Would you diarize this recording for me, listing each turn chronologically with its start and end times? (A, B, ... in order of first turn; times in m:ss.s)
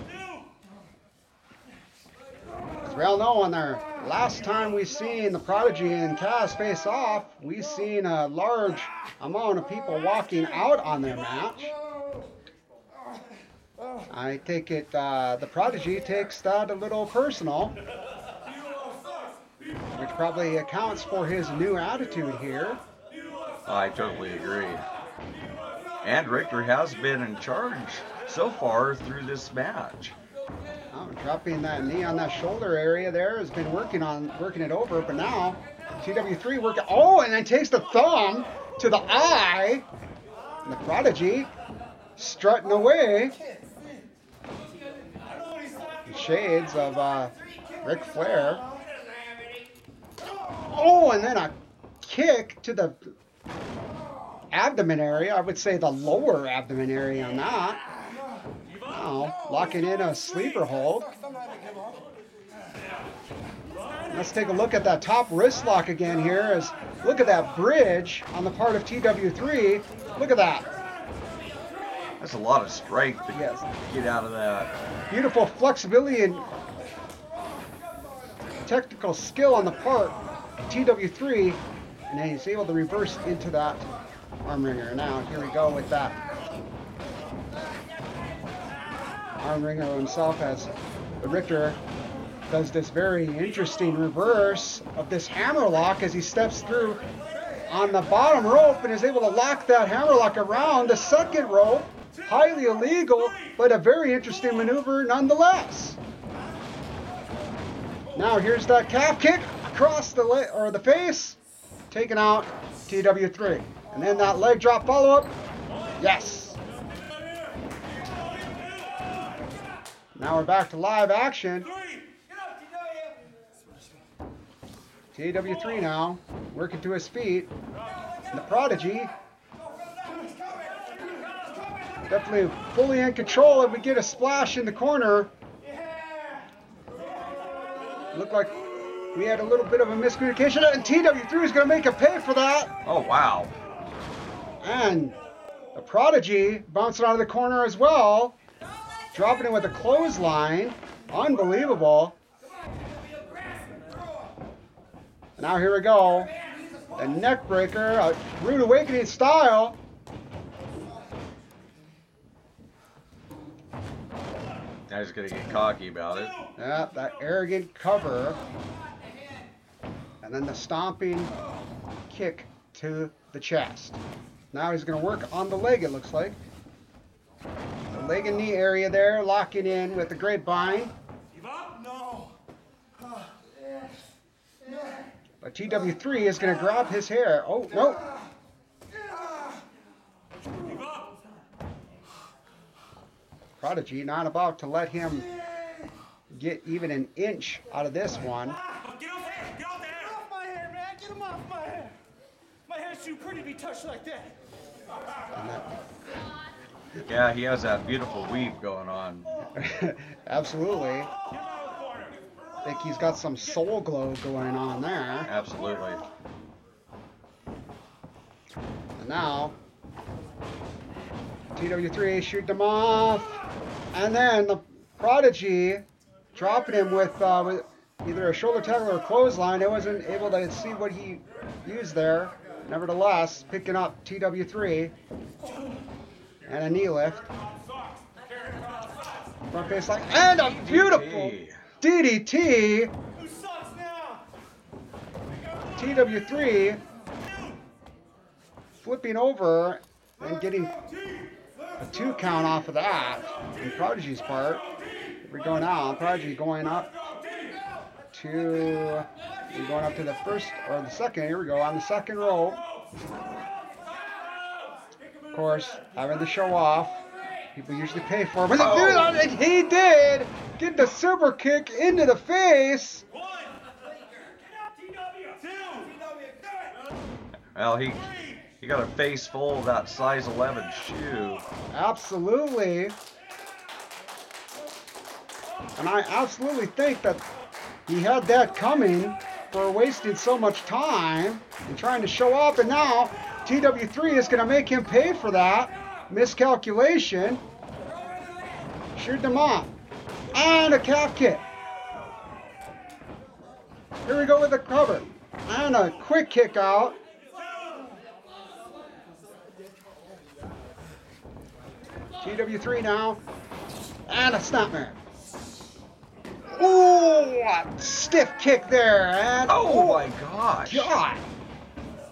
0:02.8-0:11.7 A
0:14.1-0:17.8 A
0:19.9-0:22.8 A
0:23.6-0:24.8 B
0:26.0-0:30.2 B
0:30.9-0:39.9 A
0:40.6-0:41.5 A
0:42.2-0:43.4 A
0:46.0-0:48.6 A
0:50.7-0:53.1 A
0:54.5-0:57.8 A
0:58.9-1:01.1 A
1:04.1-1:10.7 A
1:12.2-1:14.7 B
1:13.3-1:13.6 A
1:15.1-1:16.5 A
1:18.6-1:23.9 A
1:24.4-1:26.2 A
1:29.4-1:31.8 A
1:32.5-1:37.0 A
1:37.7-1:46.0 A
1:48.1-1:51.4 A
1:51.9-1:55.3 A
1:56.0-1:56.6 A
2:00.1-2:01.7 A
2:05.1-2:07.5 A
2:08.3-2:09.1 A
2:12.0-2:15.3 A
2:18.1-2:18.6 A
2:19.1-2:22.7 A
2:22.8-2:23.5 B
2:24.6-2:25.2 A
2:25.7-2:28.4 A
2:29.1-2:32.2 A
2:35.4-2:36.3 A
2:37.0-2:39.8 A
2:44.9-2:46.4 B
2:46.6-2:48.4 A
2:50.2-2:51.3 A
2:52.1-2:54.0 A
2:54.5-2:56.4 A
2:57.9-3:00.9 A
3:05.4-3:08.0 A
3:13.6-3:15.3 A
3:16.3-3:18.6 A
3:19.5-3:21.8 C
3:22.7-3:24.3 C
3:25.3-3:25.7 A
3:27.0-3:29.3 B
3:29.6-3:31.1 A
3:31.6-3:32.1 C
3:32.6-3:35.3 A
3:35.2-3:36.0 B
3:39.0-3:39.5 A
3:41.5-3:43.4 A
3:43.9-3:45.8 A
3:46.3-3:54.9 A
3:56.4-3:57.3 A
3:59.5-4:02.9 A
4:00.3-4:01.6 B
4:05.8-4:06.8 A
4:08.8-4:10.8 A
4:11.8-4:14.6 A
4:15.2-4:17.0 A
4:18.1-4:22.6 A
4:25.3-4:27.0 A
4:27.5-4:33.0 A
4:28.5-4:29.3 B
4:37.5-4:41.4 B
4:41.7-4:42.9 A
4:45.8-4:47.2 A
4:47.9-4:57.4 A
4:59.0-4:59.7 A
5:00.3-5:01.4 A
5:04.0-5:07.0 A
5:12.2-5:13.2 A
5:14.1-5:15.0 A
5:16.5-5:20.1 A
5:19.5-5:20.9 B
5:20.6-5:21.2 A